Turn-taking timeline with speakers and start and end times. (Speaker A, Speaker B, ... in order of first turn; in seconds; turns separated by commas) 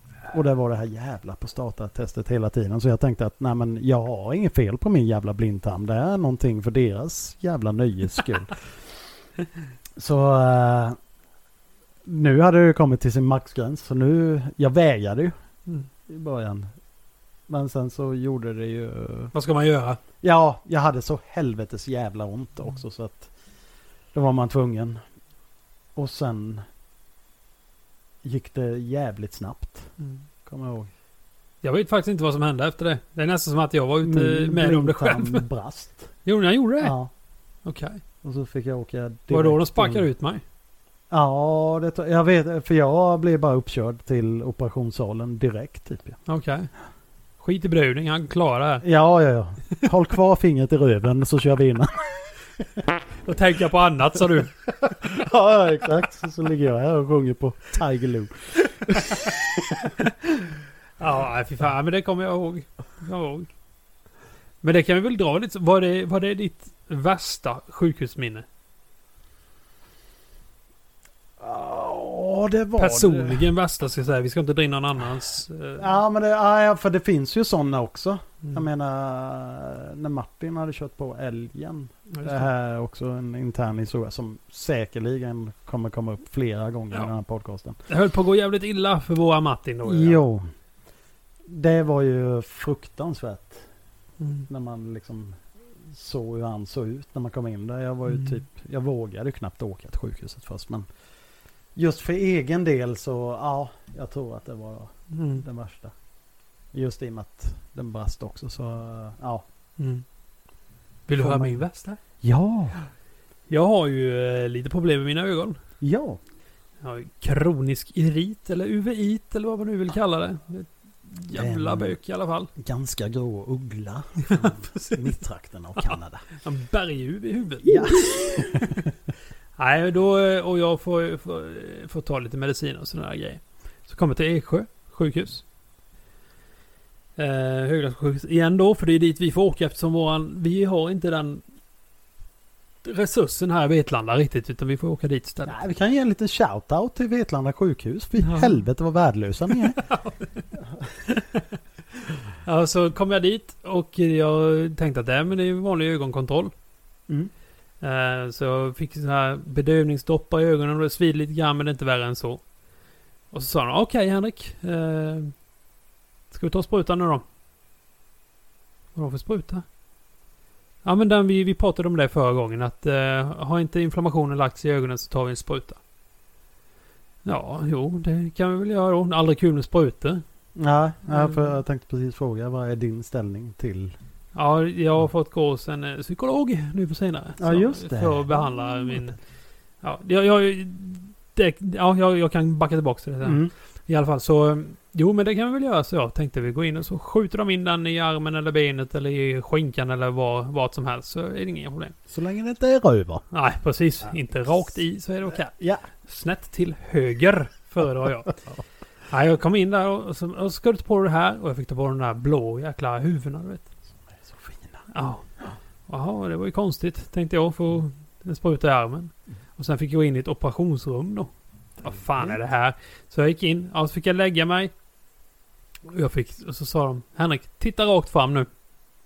Speaker A: 0.3-8.6, Speaker A: 10.0-11.0, Speaker A: 12.1-15.3, Speaker A: 16.1-16.7, Speaker A: 17.5-19.3, Speaker B: 19.3-20.0, Speaker A: 20.2-23.3, Speaker A: 24.1-25.0, Speaker A: 25.9-26.6, Speaker A: 28.2-29.9, Speaker A: 30.4-30.9, Speaker B: 31.6-35.5, Speaker A: 34.0-36.1, Speaker B: 36.2-37.0, Speaker A: 36.8-37.1, Speaker B: 37.6-38.0, Speaker A: 38.2-40.1, Speaker B: 39.3-40.4, Speaker A: 41.1-46.2, Speaker B: 46.3-46.7, Speaker B: 47.4-48.8, Speaker A: 48.8-52.8, Speaker B: 53.2-54.5, Speaker A: 54.8-59.9, Speaker B: 61.0-63.5, Speaker B: 64.6-68.5, Speaker A: 71.4-73.5, Speaker B: 72.8-76.0, Speaker A: 75.8-87.8, Speaker B: 82.1-82.5, Speaker B: 87.9-90.2, Speaker A: 89.8-90.5, Speaker A: 91.5-93.7, Speaker B: 94.2-94.5, Speaker A: 94.5-100.9, Speaker A: 101.8-105.9, Speaker B: 105.1-105.4, Speaker A: 106.7-109.5, Speaker B: 109.8-110.0, Speaker B: 111.1-112.0, Speaker A: 111.2-111.6, Speaker A: 112.2-112.8, Speaker B: 113.5-115.6, Speaker A: 115.8-116.2, Speaker B: 116.8-122.5, Speaker A: 121.3-122.0, Speaker A: 122.5-126.2, Speaker B: 124.3-125.1, Speaker B: 125.8-128.1, Speaker A: 127.6-128.9, Speaker B: 129.6-135.4, Speaker B: 137.2-141.4, Speaker B: 142.8-145.6, Speaker A: 145.4-149.8, Speaker B: 148.2-148.6, Speaker B: 149.6-150.4, Speaker B: 151.1-151.5, Speaker B: 152.4-156.5, Speaker B: 157.8-162.4, Speaker B: 163.3-165.4, Speaker B: 166.3-167.2, Speaker B: 168.9-169.6, Speaker B: 170.8-175.8, Speaker B: 177.2-180.2, Speaker A: 180.6-183.9, Speaker B: 181.1-181.5, Speaker B: 184.3-189.2, Speaker A: 187.4-189.1, Speaker B: 189.8-201.9, Speaker A: 193.2-193.5, Speaker A: 202.1-203.2, Speaker B: 203.3-205.5, Speaker A: 205.5-205.8, Speaker B: 206.0-208.4, Speaker B: 209.1-213.7, Speaker A: 214.1-214.9, Speaker B: 214.9-215.3, Speaker B: 215.9-224.7, Speaker B: 225.9-228.5